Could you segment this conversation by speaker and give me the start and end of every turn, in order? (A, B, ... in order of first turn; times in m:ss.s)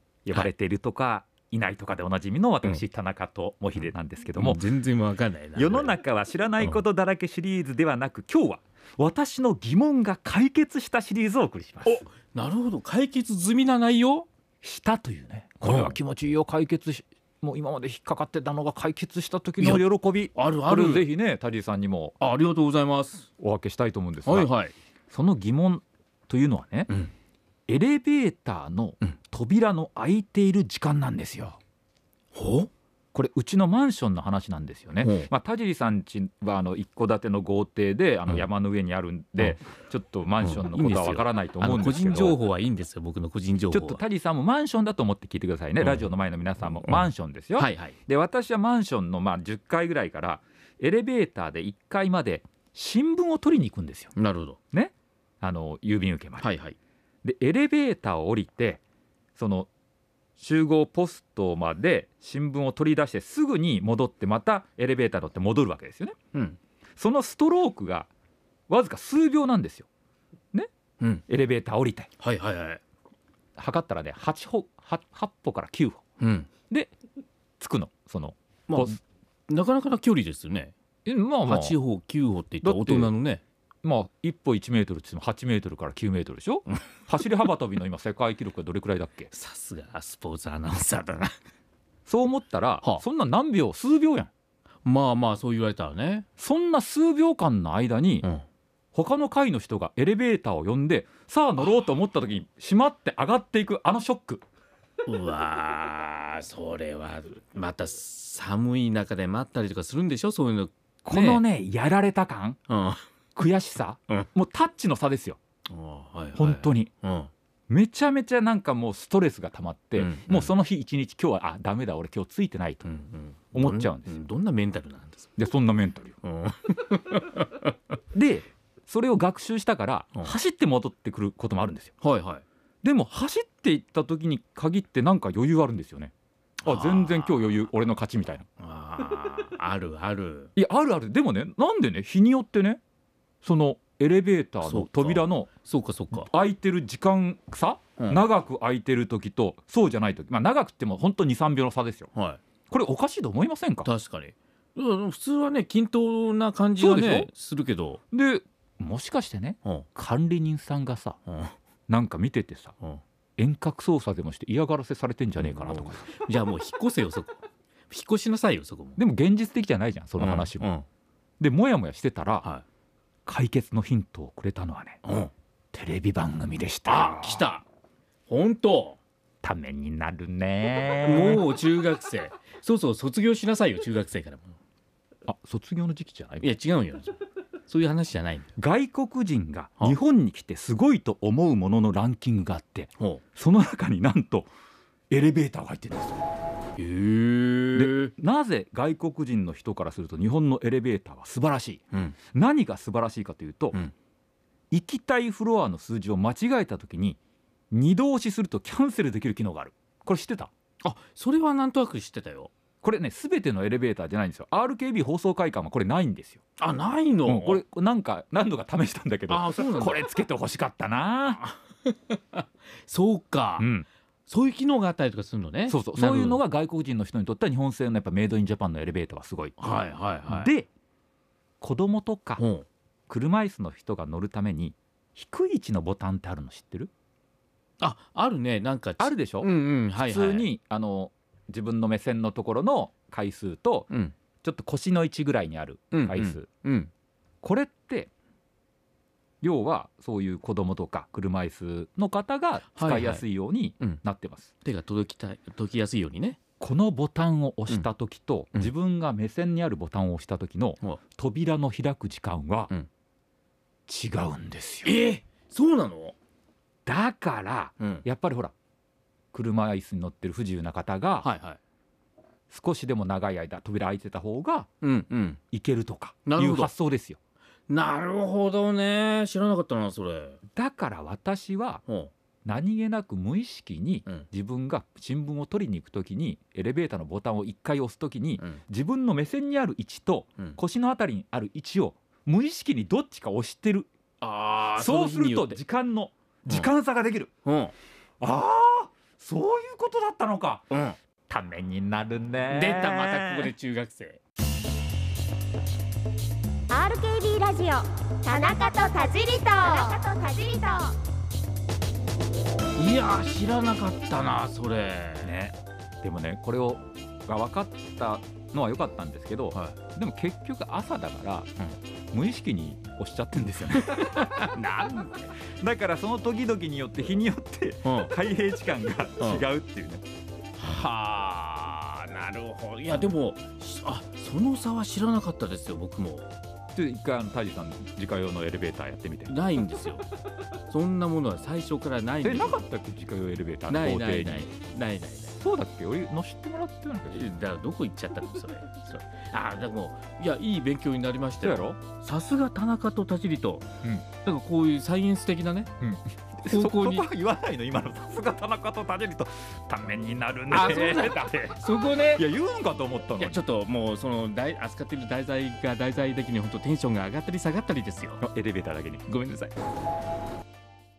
0:00.2-0:04.6 A
0:04.4-0:06.0 B
0:05.6-0:12.0 A
0:11.8-0:14.3 B
0:14.6-0:22.2 A
0:15.6-0:16.0 B
0:19.6-0:21.1 B
0:22.2-0:23.3 B
0:23.4-0:24.5 A
0:24.2-0:24.7 B
0:25.1-0:26.9 A
0:27.7-0:31.6 A
0:32.3-0:32.7 B
0:33.1-0:42.4 A
0:35.0-0:35.3 B
0:40.4-0:44.0 B
0:43.7-0:54.1 A
0:47.6-0:48.0 B
0:54.2-0:54.6 B
0:54.7-0:56.5 A
0:56.4-0:56.8 B
0:57.2-0:58.8 A
0:59.3-0:59.7 A
1:00.4-1:06.2 A
1:07.0-1:08.1 A
1:08.7-1:09.9 A
1:11.0-1:11.2 B
1:11.3-1:12.1 A
1:12.2-1:12.8 B
1:13.6-1:16.0 A
1:16.2-1:16.5 B
1:17.6-1:19.0 A
1:18.7-1:20.7 B
1:21.0-1:21.8 A
1:21.4-1:23.4 B
1:22.6-1:23.1 A
1:23.8-1:29.3 A
1:29.3-1:31.4 B
1:32.1-1:34.3 A
1:34.8-1:36.2 B
1:36.4-1:38.3 A
1:38.9-1:44.4 A
1:45.0-1:51.4 B
1:51.0-1:52.6 A
1:52.7-1:53.0 B
1:53.4-1:55.4 A
1:55.7-1:57.3 B
1:56.4-1:56.9 A
1:57.7-2:02.9 A
2:00.0-2:00.5 B
2:02.8-2:05.4 B
2:03.5-2:04.2 A
2:05.4-2:06.2 A
2:06.2-2:07.7 B
2:08.1-2:11.9 A
2:12.0-2:12.4 B
2:12.8-2:16.1 A
2:16.6-2:17.6 B
2:16.6-2:18.4 A
2:18.6-2:20.5 B
2:20.6-2:22.8 A
2:23.4-2:25.5 A
2:24.6-2:26.3 B
2:26.2-2:32.1 A
2:32.1-2:32.4 B
2:32.7-2:33.9 A
2:33.8-2:38.0 B
2:36.8-2:37.3 A
2:38.1-2:41.2 A
2:41.3-2:41.5 B
2:41.9-2:42.7 A
2:43.4-2:46.1 A
2:45.4-2:49.0 B
2:49.0-2:50.7 A
2:50.2-2:50.8 B
2:51.4-2:52.4 A
2:53.2-2:55.0 A
2:55.0-2:55.3 B
2:55.7-2:57.4 A
2:56.8-2:57.6 B
2:58.3-2:59.0 B
2:59.4-3:01.4 A
3:01.0-3:04.5 B
3:05.3-3:06.5 A
3:06.4-3:07.2 B
3:07.7-3:08.5 B
3:08.6-3:14.5 A
3:15.1-3:16.2 A
3:16.8-3:18.1 B
3:17.7-3:23.8 A
3:24.7-3:27.2 A
3:27.7-3:30.5 A
3:30.8-3:32.5 B
3:32.8-3:36.4 A
3:36.6-3:37.6 B
3:37.2-3:41.4 A
3:39.3-3:40.1 B
3:41.3-3:43.7 B
3:43.6-3:43.9 A
3:44.3-3:46.4 B
3:45.7-3:49.6 A
3:49.6-3:50.5 B
3:50.3-3:50.7 A
3:51.6-3:52.4 A
3:52.4-3:52.6 B
3:53.1-3:56.9 A
3:57.8-4:00.5 B
3:59.0-4:03.9 A
4:03.9-4:04.1 B
4:04.4-4:06.5 A
4:05.9-4:06.9 B
4:07.4-4:08.1 A
4:09.4-4:14.5 A
4:12.7-4:13.2 B
4:14.6-4:16.4 B
4:16.6-4:22.7 A
4:23.9-4:24.9 A
4:24.8-4:26.2 B
4:26.8-4:28.5 A
4:27.8-4:28.0 B
4:29.3-4:31.3 A
4:31.2-4:31.6 B
4:32.5-4:34.7 A
4:34.8-4:35.4 B
4:35.5-4:37.2 A
4:36.2-4:36.7 B
4:37.7-4:40.4 B
4:40.5-4:41.8 A
4:41.8-4:42.1 B
4:42.4-4:53.9 A
4:54.2-4:55.6 B
4:54.7-4:57.3 A
4:57.4-4:57.7 B
4:58.2-5:00.7 A
5:00.7-5:01.0 B
5:01.3-5:03.5 A
5:02.5-5:04.2 B
5:06.7-5:11.0 C
5:12.8-5:15.4 B
5:15.2-5:21.5 A
5:19.5-5:19.8 B
5:22.1-5:24.5 A
5:23.8-5:25.3 B
5:25.4-5:30.0 A
5:27.8-5:28.1 B
5:29.2-5:29.4 B
5:30.6-5:36.3 B
5:36.7-5:39.3 A
5:39.3-5:40.0 B
5:40.7-5:42.6 B
5:42.2-5:44.5 A
5:43.7-5:45.4 B
5:45.3-5:47.2 A
5:47.0-5:53.7 B
5:51.4-5:51.8 A
5:54.2-5:55.7 B
5:55.8-6:01.6 A
5:56.4-5:57.1 B
6:00.5-6:02.2 B
6:02.1-6:03.4 A
6:03.2-6:08.2 B
6:08.2-6:09.0 A
6:09.0-6:09.5 B